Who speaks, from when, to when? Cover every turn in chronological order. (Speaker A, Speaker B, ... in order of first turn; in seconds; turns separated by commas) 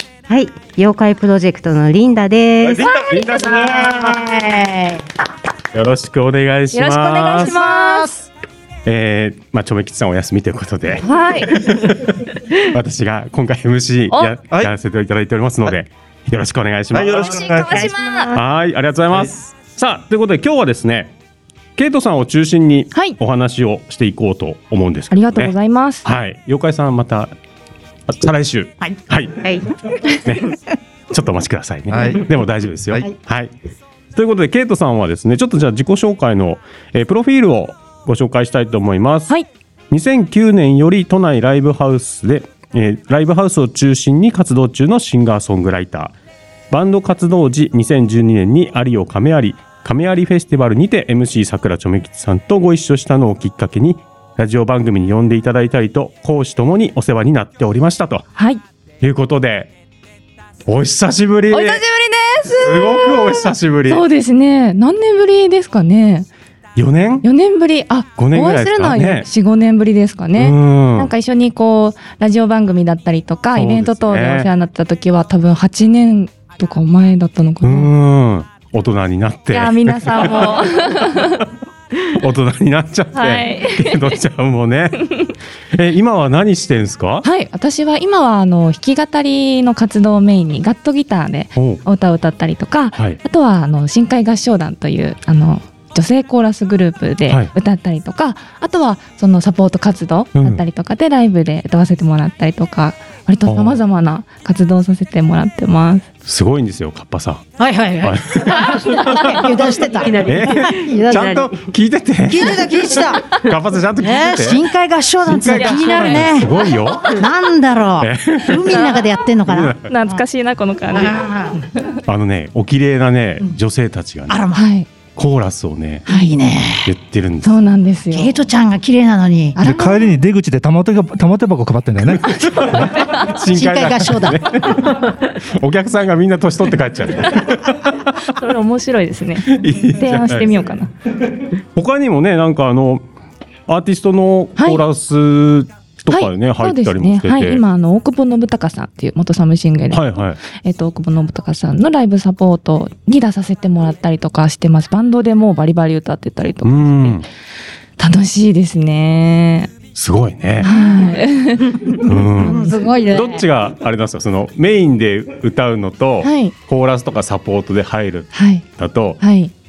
Speaker A: 0.3-2.9, Speaker B: 2.6-4.3, Speaker C: 2.8-3.2, Speaker D: 3.2-5.0, Speaker B: 5.7-7.6, Speaker C: 6.7-8.2, Speaker D: 7.7-8.1, Speaker B: 8.8-17.4, Speaker C: 11.0-11.6, Speaker E: 16.9-17.9, Speaker C: 17.2-18.3, Speaker B: 18.3-21.1, Speaker B: 21.8-27.3, Speaker C: 25.1-26.1, Speaker B: 28.1-29.4, Speaker B: 30.2-30.6, Speaker B: 31.1-33.5, Speaker E: 31.9-32.2, Speaker B: 34.1-39.3, Speaker B: 39.9-46.1, Speaker B: 46.7-58.2, Speaker C: 58.4-58.6, Speaker B: 59.0-59.7, Speaker B: 60.7-61.8, Speaker C: 61.5-63.1, Speaker B: 62.5-64.0, Speaker C: 63.9-66.3, Speaker B: 66.8-67.2, Speaker C: 67.2-77.9, Speaker B: 68.2-69.3, Speaker B: 70.4-71.1, Speaker B: 73.5-74.5, Speaker B: 77.6-81.3, Speaker C: 79.5-81.4, Speaker B: 82.1-85.1, Speaker C: 83.1-84.2, Speaker B: 85.7-87.2, Speaker C: 87.2-106.1, Speaker B: 91.5-91.8, Speaker B: 100.3-100.6, Speaker B: 103.5-103.8, Speaker B: 106.2-107.4, Speaker D: 107.6-111.4, Speaker B: 108.0-109.4, Speaker A: 109.7-111.5, Speaker B: 110.2-114.6, Speaker D: 112.3-113.3, Speaker D: 114.0-116.6, Speaker B: 115.2-117.1, Speaker C: 115.5-117.2, Speaker D: 117.1-120.2, Speaker B: 118.0-118.8, Speaker C: 118.7-119.0, Speaker B: 119.5-119.9, Speaker C: 119.9-121.2, Speaker D: 120.9-121.6, Speaker B: 122.1-124.3, Speaker D: 124.3-124.7, Speaker C: 124.5-124.9, Speaker B: 125.1-126.0, Speaker D: 126.1-126.9, Speaker C: 126.1-126.3, Speaker B: 126.8-127.5, Speaker C: 127.4-128.4, Speaker D: 128.1-129.6, Speaker C: 129.6-130.2, Speaker E: 129.6-132.8, Speaker B: 132.2-138.3, Speaker C: 132.7-133.3, Speaker D: 133.5-134.4, Speaker C: 138.3-140.9, Speaker B: 139.5-140.5, Speaker B: 141.7-143.0, Speaker B: 143.7-147.6, Speaker C: 144.6-144.8, Speaker C: 146.1-157.2, Speaker B: 149.9-150.4, Speaker B: 156.6-157.2, Speaker C: 158.0-159.7, Speaker B: 159.9-160.7, Speaker C: 160.6-162.8, Speaker D: 160.6-161.2, Speaker D: 161.7-163.4, Speaker B: 162.0-169.2, Speaker C: 166.2-166.5, Speaker C: 168.3-168.6, Speaker C: 169.2-169.5